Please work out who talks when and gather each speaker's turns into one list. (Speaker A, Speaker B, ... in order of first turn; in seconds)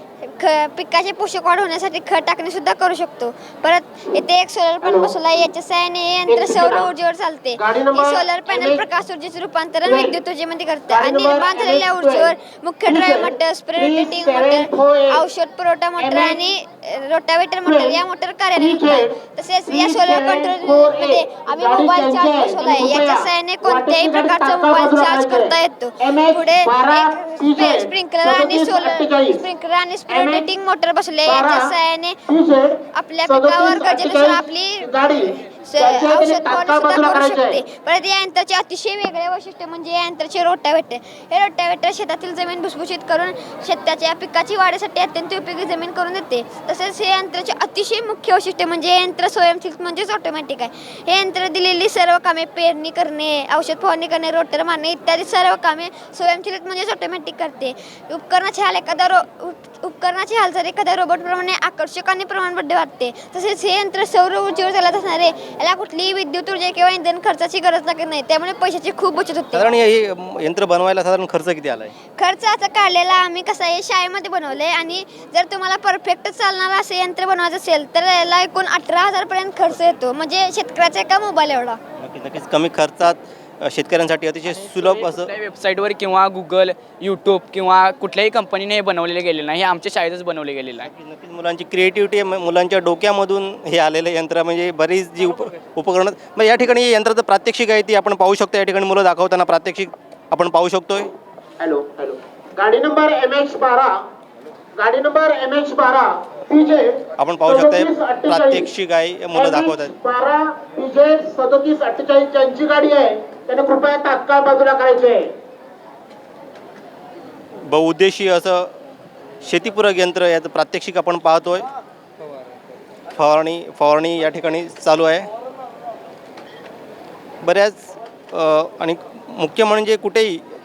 Speaker A: 0.2-32.2, 32.9-35.0, 35.7-69.7, 72.2-81.8
Speaker B: 4.8-5.2, 6.2-7.0, 7.5-8.9, 9.8-10.2, 10.9-15.3, 15.9-16.6, 17.6-29.5, 30.0-30.5, 31.2-37.7, 101.6-104.0, 104.8-108.7, 109.3-115.3
Speaker C: 69.5-71.9, 82.0-85.3, 90.8-101.1, 107.2-109.9, 117.7-118.7, 119.4-121.7, 123.2-125.3, 127.4-130.4
Speaker D: 84.8-90.9